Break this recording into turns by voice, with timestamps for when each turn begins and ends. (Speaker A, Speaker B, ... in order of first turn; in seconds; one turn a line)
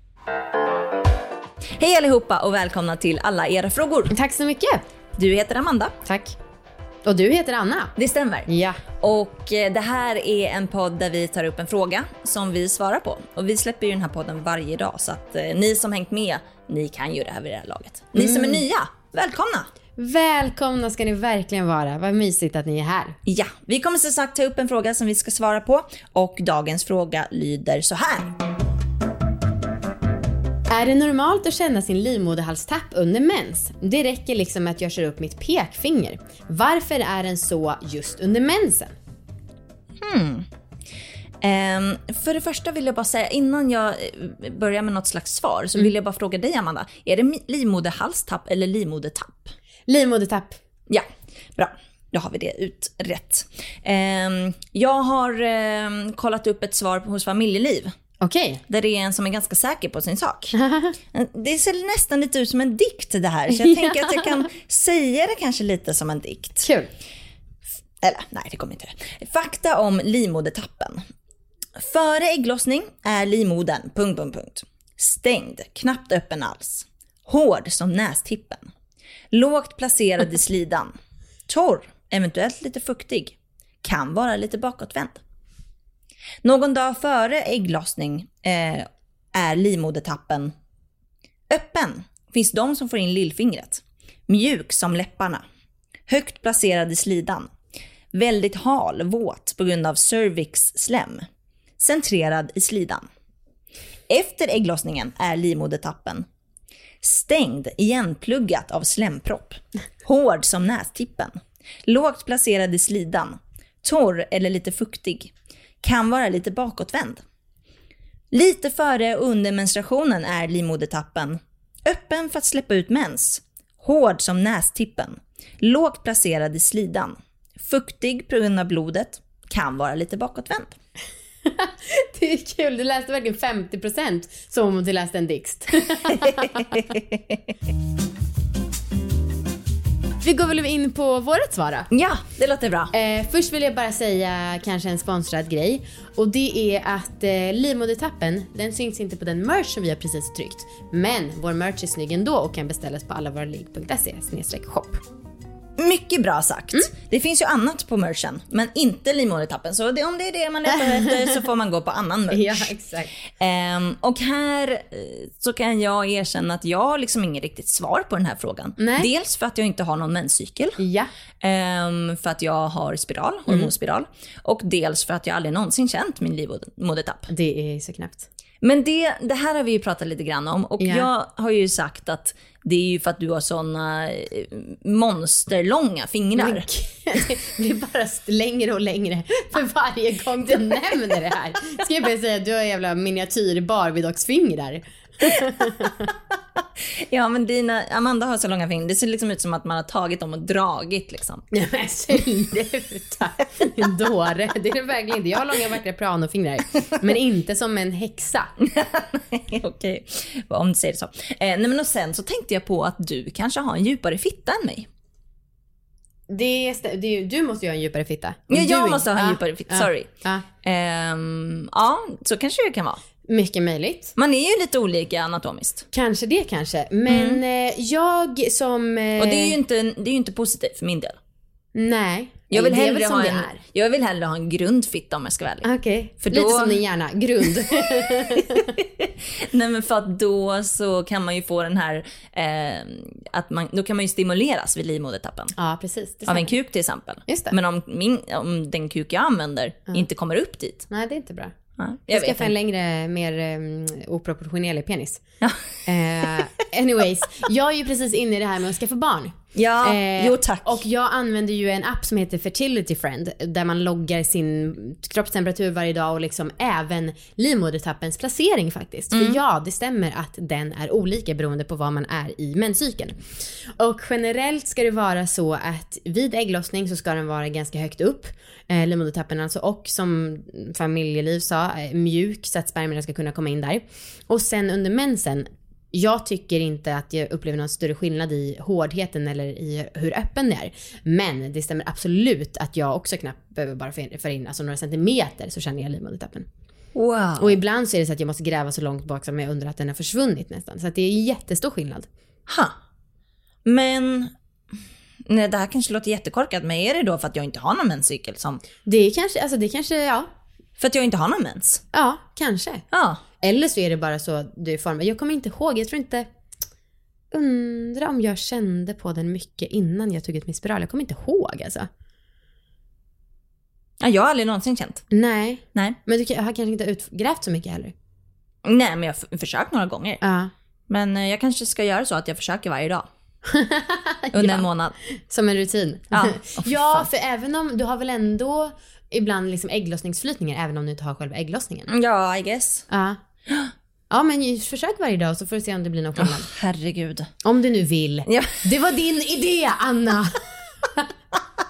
Speaker A: 1.8-4.1
Speaker B: 4.1-4.8
Speaker A: 5.2-5.9
Speaker B: 6.0-6.3
Speaker B: 7.0-7.9
Speaker A: 8.0-8.5
Speaker B: 8.5-8.8
Speaker A: 9.0-19.7
Speaker B: 18.2-18.6
Speaker B: 19.9-23.2
Speaker A: 23.2-28.3
Speaker B: 30.7-38.9
Speaker A: 40.0-40.5
Speaker A: 41.4-49.5
Speaker B: 49.9-50.6
Speaker A: 51.5-57.9
Speaker B: 58.2-58.6
Speaker A: 58.7-60.5
Speaker B: 60.5-61.0
Speaker A: 61.1-66.7
Speaker B: 63.6-64.3
Speaker B: 66.6-66.9
Speaker A: 68.0-71.0
Speaker A: 71.8-78.7
Speaker A: 79.3-80.9
Speaker A: 81.5-85.2
Speaker A: 86.4-90.5
Speaker A: 91.5-95.4
Speaker A: 96.1-97.5
Speaker A: 98.1-101.2
Speaker A: 101.8-103.0
Speaker A: 104.1-106.2
Speaker A: 107.0-111.3
Speaker A: 111.8-117.2
Speaker A: 118.3-130.8
Speaker B: 131.4-136.8
Speaker A: 136.7-137.4
Speaker B: 140.2-141.9
Speaker A: 141.9-142.9
Speaker B: 142.9-155.0
Speaker A: 155.8-162.7
Speaker B: 160.7-161.3
Speaker B: 162.3-163.1
Speaker A: 163.4-170.8
Speaker B: 168.8-169.1
Speaker B: 170.8-171.1
Speaker A: 171.4-177.3
Speaker B: 177.3-178.3
Speaker A: 178.6-186.6
Speaker B: 180.8-181.1
Speaker B: 186.3-196.1
Speaker A: 197.0-201.4
Speaker B: 201.5-208.5
Speaker A: 208.6-214.9
Speaker B: 216.3-220.4
Speaker A: 218.5-220.1
Speaker A: 220.6-223.0
Speaker B: 223.3-224.1
Speaker A: 224.2-225.8
Speaker B: 225.9-229.6
Speaker A: 227.1-227.4
Speaker A: 229.2-231.2
Speaker B: 231.7-233.6
Speaker A: 232.5-235.7
Speaker B: 235.6-238.7
Speaker A: 236.2-236.8
Speaker A: 238.1-245.5
Speaker B: 245.6-246.5
Speaker A: 246.2-250.8
Speaker B: 247.3-247.5
Speaker B: 250.9-251.5
Speaker A: 251.8-252.5
Speaker B: 252.1-255.2
Speaker B: 255.8-273.2
Speaker A: 259.5-260.8
Speaker A: 269.1-269.4
Speaker B: 273.8-296.4
Speaker A: 296.9-297.6
Speaker B: 297.4-302.1
Speaker A: 302.5-302.7
Speaker A: 303.6-304.3
Speaker A: 305.3-308.6
Speaker B: 308.8-310.3
Speaker A: 310.8-311.8
Speaker B: 311.9-312.8
Speaker A: 312.9-313.2
Speaker B: 313.4-316.3
Speaker B: 317.3-321.9
Speaker A: 324.0-325.0
Speaker B: 325.1-327.9
Speaker A: 328.6-330.2
Speaker B: 330.2-330.5
Speaker A: 330.9-333.1
Speaker B: 333.4-334.6
Speaker A: 334.3-334.9
Speaker B: 335.3-341.9
Speaker A: 336.1-337.0
Speaker A: 341.9-342.9
Speaker B: 342.9-343.2
Speaker B: 344.1-346.5
Speaker A: 346.2-347.3
Speaker B: 347.4-350.3
Speaker A: 348.3-348.6